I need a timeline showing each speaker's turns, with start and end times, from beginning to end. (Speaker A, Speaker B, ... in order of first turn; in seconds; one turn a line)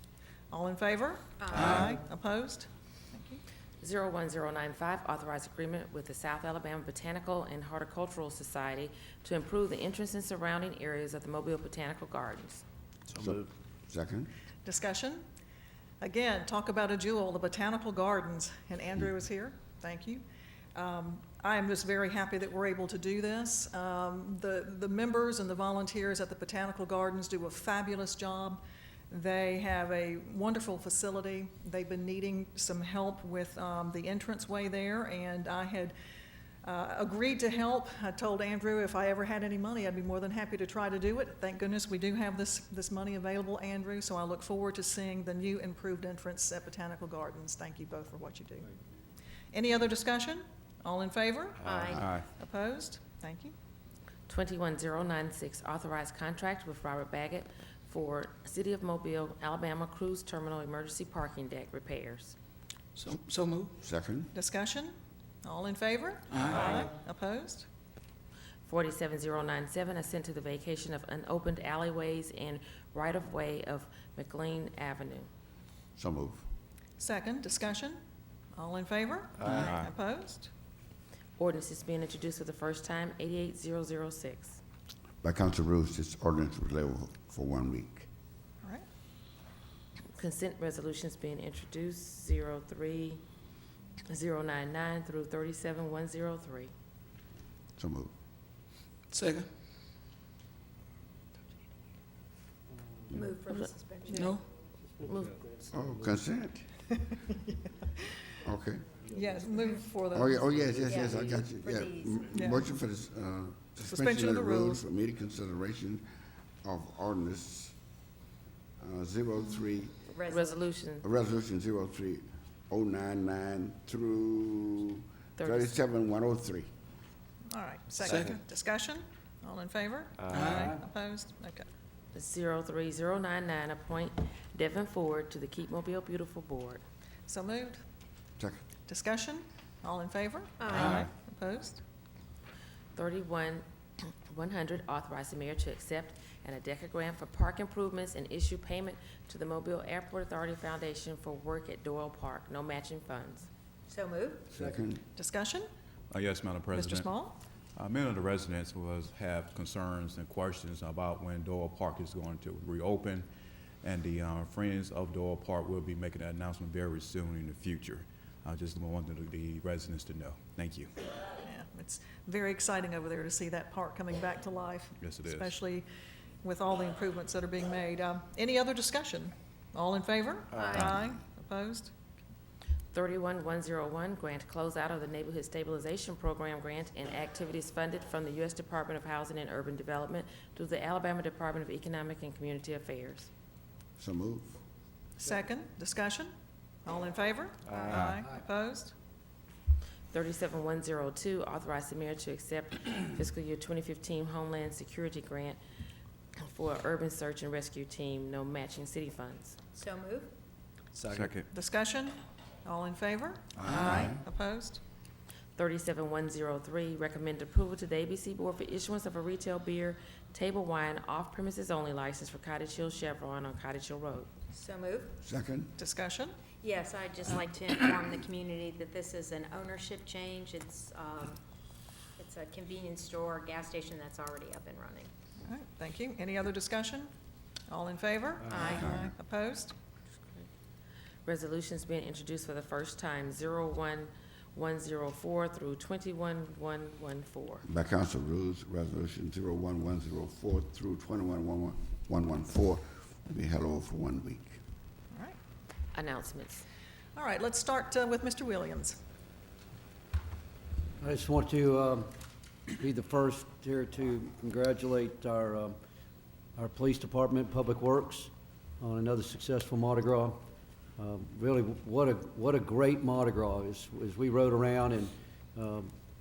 Speaker A: 0.5-3.4
Speaker B: 1.4-1.8
Speaker C: 3.8-12.6
Speaker D: 13.1-14.3
Speaker A: 14.6-15.2
Speaker A: 16.0-20.2
Speaker A: 20.7-35.9
Speaker A: 36.6-48.7
Speaker A: 49.5-51.7
Speaker B: 51.6-52.1
Speaker E: 51.9-52.3
Speaker A: 52.2-53.5
Speaker C: 54.3-62.3
Speaker F: 63.0-63.7
Speaker D: 63.8-64.3
Speaker A: 64.3-67.7
Speaker F: 66.3-66.8
Speaker C: 68.7-75.3
Speaker D: 76.0-76.5
Speaker A: 77.0-78.0
Speaker A: 78.5-80.5
Speaker E: 79.4-79.9
Speaker C: 81.4-84.6
Speaker D: 85.2-88.1
Speaker C: 90.2-93.2
Speaker C: 94.1-96.7
Speaker D: 97.8-98.1
Speaker F: 99.1-99.5
Speaker B: 103.1-104.2
Speaker C: 103.5-104.3
Speaker F: 104.1-104.4
Speaker C: 105.0-105.4
Speaker D: 105.7-106.7
Speaker D: 108.4-108.9
Speaker A: 109.1-110.5
Speaker D: 110.1-116.1
Speaker B: 110.8-112.3
Speaker A: 112.3-112.7
Speaker A: 113.8-114.8
Speaker D: 116.6-117.8
Speaker D: 118.8-119.9
Speaker B: 120.1-120.6
Speaker C: 120.3-121.0
Speaker D: 121.0-126.7
Speaker C: 125.4-125.8
Speaker A: 127.5-131.7
Speaker F: 130.3-130.8
Speaker C: 132.1-136.8
Speaker A: 137.3-137.8
Speaker A: 138.9-141.8
Speaker B: 140.6-141.1
Speaker C: 142.9-143.6
Speaker C: 144.3-153.5
Speaker B: 153.9-154.5
Speaker D: 154.5-155.0
Speaker A: 155.1-155.7
Speaker E: 156.1-157.1
Speaker A: 156.7-157.4
Speaker E: 157.8-163.3
Speaker E: 163.8-170.9
Speaker A: 171.4-175.8
Speaker E: 175.0-175.6
Speaker A: 176.4-181.9
Speaker B: 180.5-181.0
Speaker C: 182.9-193.3
Speaker D: 194.0-194.6
Speaker A: 195.2-196.3
Speaker A: 196.8-198.9
Speaker E: 197.9-198.2
Speaker C: 200.1-205.6
Speaker C: 206.4-209.6
Speaker B: 209.7-210.3
Speaker F: 210.9-211.3
Speaker E: 211.1-211.5
Speaker A: 211.5-214.8
Speaker D: 213.6-214.2
Speaker C: 215.6-224.3
Speaker B: 224.5-225.2
Speaker D: 225.2-225.7
Speaker A: 225.8-226.3
Speaker B: 226.6-231.4
Speaker B: 232.2-235.1
Speaker A: 235.4-237.1
Speaker A: 237.7-239.7
Speaker B: 238.5-239.0
Speaker D: 238.8-239.1
Speaker C: 241.2-247.6
Speaker D: 247.7-254.6
Speaker C: 255.9-256.6
Speaker A: 257.1-259.0
Speaker G: 261.0-265.8
Speaker G: 266.6-270.4
Speaker G: 271.0-275.9